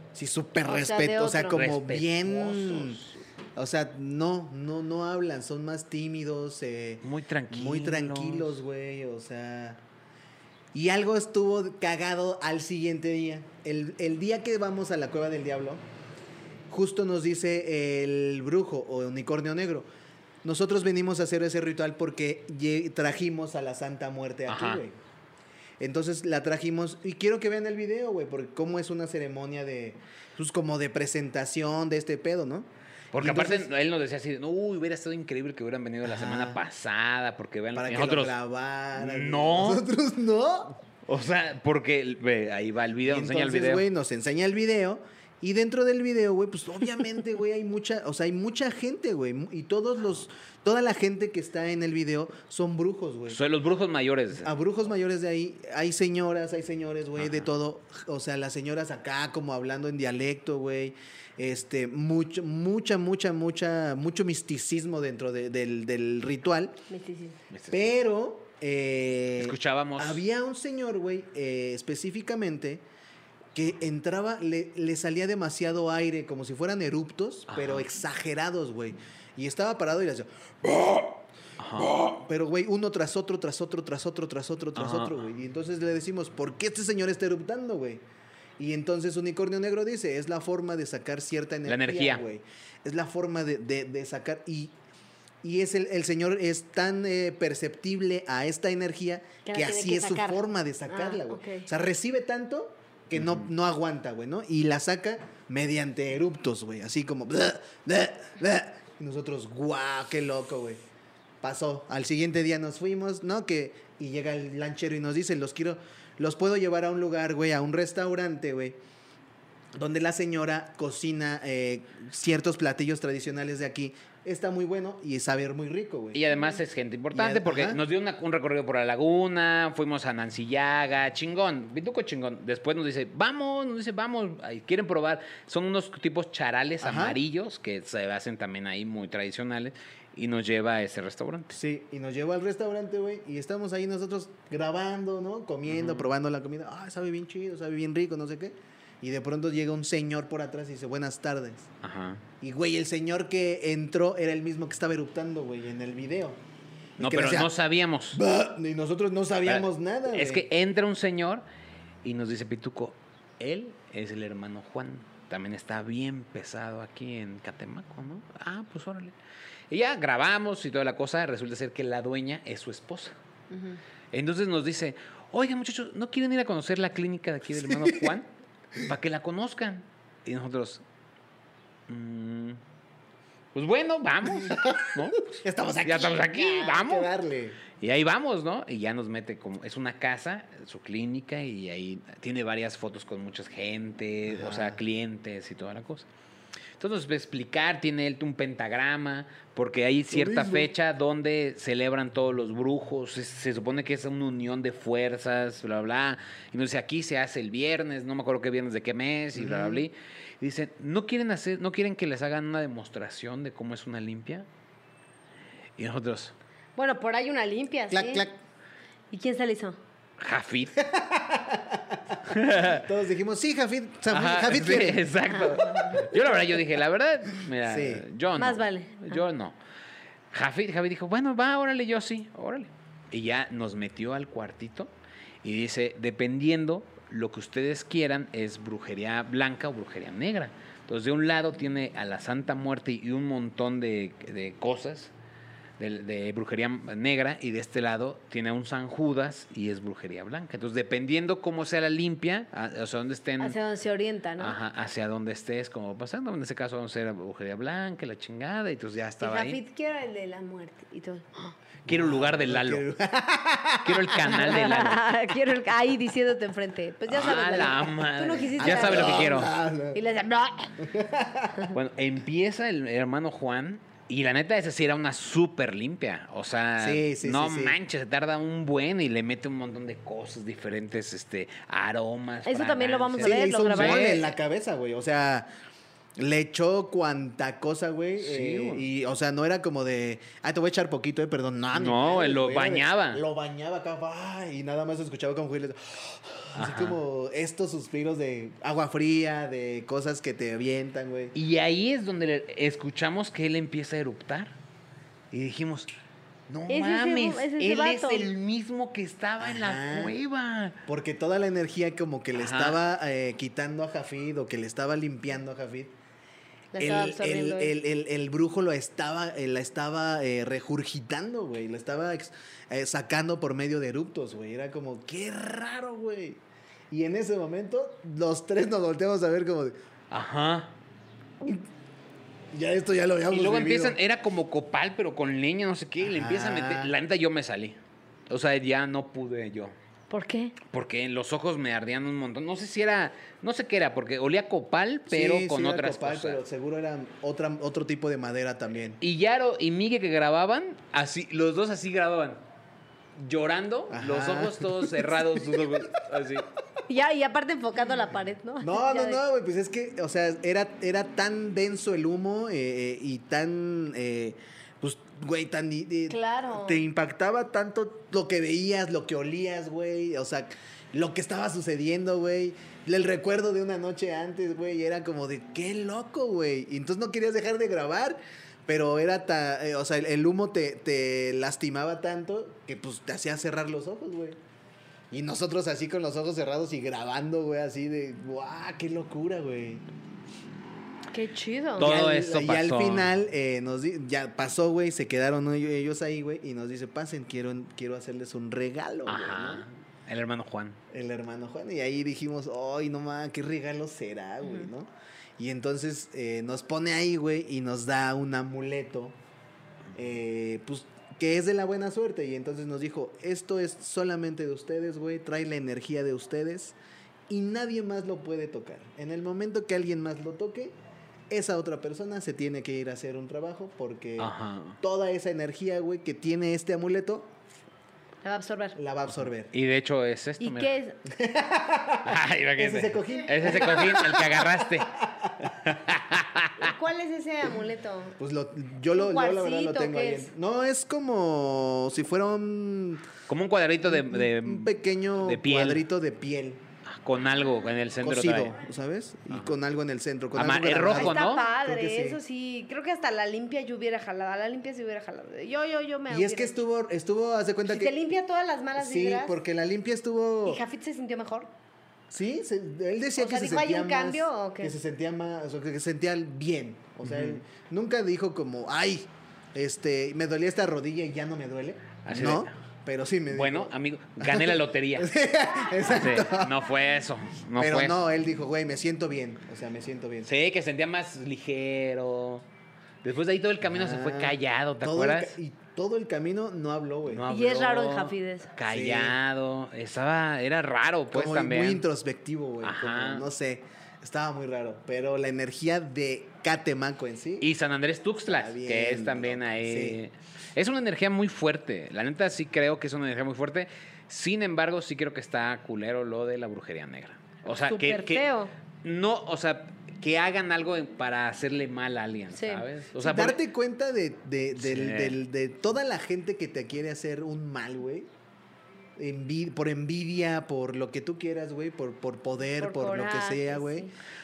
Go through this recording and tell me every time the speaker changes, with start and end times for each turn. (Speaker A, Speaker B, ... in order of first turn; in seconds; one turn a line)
Speaker A: 0.1-3.0
Speaker B: 0.7-1.6
Speaker C: 1.5-3.2
Speaker A: 3.6-9.8
Speaker C: 7.0-8.6
Speaker A: 10.7-15.8
Speaker A: 16.7-19.9
Speaker A: 20.4-25.0
Speaker C: 24.5-24.8
Speaker A: 25.8-33.7
Speaker C: 33.1-38.4
Speaker A: 36.0-36.6
Speaker A: 37.7-40.8
Speaker C: 39.0-39.9
Speaker C: 41.1-43.9
Speaker A: 43.0-53.4
Speaker C: 53.3-54.5
Speaker A: 54.4-66.8
Speaker C: 57.2-57.5
Speaker B: 66.9-67.4
Speaker C: 67.5-67.9
Speaker A: 67.7-72.8
Speaker C: 69.4-70.2
Speaker A: 73.5-81.2
Speaker C: 77.5-77.9
Speaker C: 81.6-82.0
Speaker A: 81.8-88.0
Speaker C: 84.8-85.2
Speaker A: 88.6-94.7
Speaker C: 91.7-92.2
Speaker A: 95.4-110.8
Speaker B: 99.5-101.7
Speaker C: 103.2-103.5
Speaker A: 111.4-118.8
Speaker A: 119.8-126.2
Speaker C: 126.1-141.6
Speaker A: 127.1-127.8
Speaker A: 136.8-137.2
Speaker A: 141.5-151.7
Speaker C: 145.7-146.1
Speaker C: 151.8-152.2
Speaker A: 152.4-156.4
Speaker A: 157.0-157.5
Speaker C: 157.0-158.2
Speaker A: 158.1-160.5
Speaker C: 159.5-161.4
Speaker C: 162.0-169.2
Speaker C: 169.7-173.2
Speaker B: 173.5-173.8
Speaker C: 174.1-178.3
Speaker A: 177.6-178.1
Speaker C: 178.8-180.8
Speaker C: 181.9-182.6
Speaker C: 183.6-187.1
Speaker A: 184.3-187.6
Speaker C: 187.8-196.1
Speaker A: 194.3-194.8
Speaker C: 196.8-214.5
Speaker A: 200.1-200.7
Speaker A: 209.3-209.8
Speaker C: 215.8-216.3
Speaker B: 216.8-218.3
Speaker A: 217.9-218.4
Speaker B: 219.1-219.8
Speaker C: 220.2-220.8
Speaker A: 220.8-225.1
Speaker C: 222.3-222.9
Speaker C: 224.1-229.6
Speaker B: 225.5-226.0
Speaker A: 226.1-226.4
Speaker A: 227.6-228.1
Speaker B: 228.4-229.2
Speaker C: 230.3-234.9
Speaker C: 235.4-245.1
Speaker C: 245.8-253.6
Speaker B: 253.4-254.6
Speaker C: 254.4-259.6
Speaker B: 259.2-261.6
Speaker C: 261.9-262.9
Speaker A: 261.9-264.9
Speaker C: 263.8-265.1
Speaker B: 264.3-270.8
Speaker C: 267.1-269.5
Speaker A: 268.6-270.0
Speaker A: 270.8-271.7
Speaker C: 271.7-284.3
Speaker A: 276.8-277.8
Speaker B: 282.5-284.3
Speaker A: 283.2-285.5
Speaker A: 286.2-301.4
Speaker C: 288.2-288.9
Speaker C: 291.7-293.2
Speaker C: 296.6-297.0
Speaker C: 301.3-304.6
Speaker C: 305.3-305.9
Speaker C: 306.5-310.8
Speaker B: 306.7-308.3
Speaker A: 309.4-310.1
Speaker A: 310.9-315.9
Speaker C: 312.3-312.8
Speaker B: 316.7-317.7
Speaker A: 316.8-329.8
Speaker C: 330.1-330.7
Speaker A: 332.5-334.0
Speaker C: 333.3-337.8
Speaker A: 336.0-336.9
Speaker C: 338.3-339.8
Speaker B: 340.1-340.6
Speaker C: 340.7-346.4
Speaker A: 345.1-349.0
Speaker C: 349.0-352.4
Speaker C: 353.2-356.5
Speaker A: 353.9-355.8
Speaker B: 356.9-359.2
Speaker A: 358.6-384.4
Speaker B: 366.1-366.8
Speaker A: 385.1-389.9
Speaker B: 391.1-391.9
Speaker C: 391.8-393.1
Speaker A: 391.8-399.7
Speaker C: 399.1-400.8
Speaker A: 400.9-409.2
Speaker A: 409.9-416.8
Speaker A: 417.3-420.8
Speaker A: 421.3-427.3
Speaker C: 424.2-424.8
Speaker B: 428.2-428.8
Speaker A: 428.8-429.5
Speaker C: 429.5-430.7
Speaker B: 430.4-431.0
Speaker A: 431.1-435.6
Speaker C: 432.0-434.9
Speaker C: 435.6-436.7
Speaker B: 436.6-438.2
Speaker A: 438.2-443.1
Speaker B: 438.9-440.3
Speaker C: 443.3-445.9
Speaker A: 443.8-446.6
Speaker C: 446.9-448.6
Speaker A: 448.0-452.2
Speaker C: 450.4-451.4
Speaker B: 450.9-456.6
Speaker A: 456.1-457.9
Speaker B: 457.7-459.4
Speaker A: 458.8-460.6
Speaker B: 460.4-461.5
Speaker A: 462.1-476.6
Speaker B: 463.2-464.8
Speaker C: 467.0-467.4
Speaker C: 472.1-472.5
Speaker C: 473.3-475.1
Speaker C: 475.8-478.0
Speaker A: 477.6-480.3
Speaker C: 480.2-482.4
Speaker C: 483.0-485.4
Speaker A: 483.7-487.3
Speaker C: 487.1-491.8
Speaker B: 487.3-488.5
Speaker A: 488.7-489.2
Speaker A: 491.1-497.5
Speaker C: 492.6-493.3
Speaker C: 497.4-508.3
Speaker A: 498.3-500.0
Speaker B: 507.5-508.5
Speaker C: 508.8-513.4
Speaker B: 512.3-512.7
Speaker A: 513.0-518.1
Speaker C: 514.6-515.2
Speaker A: 519.0-523.9
Speaker B: 522.6-523.9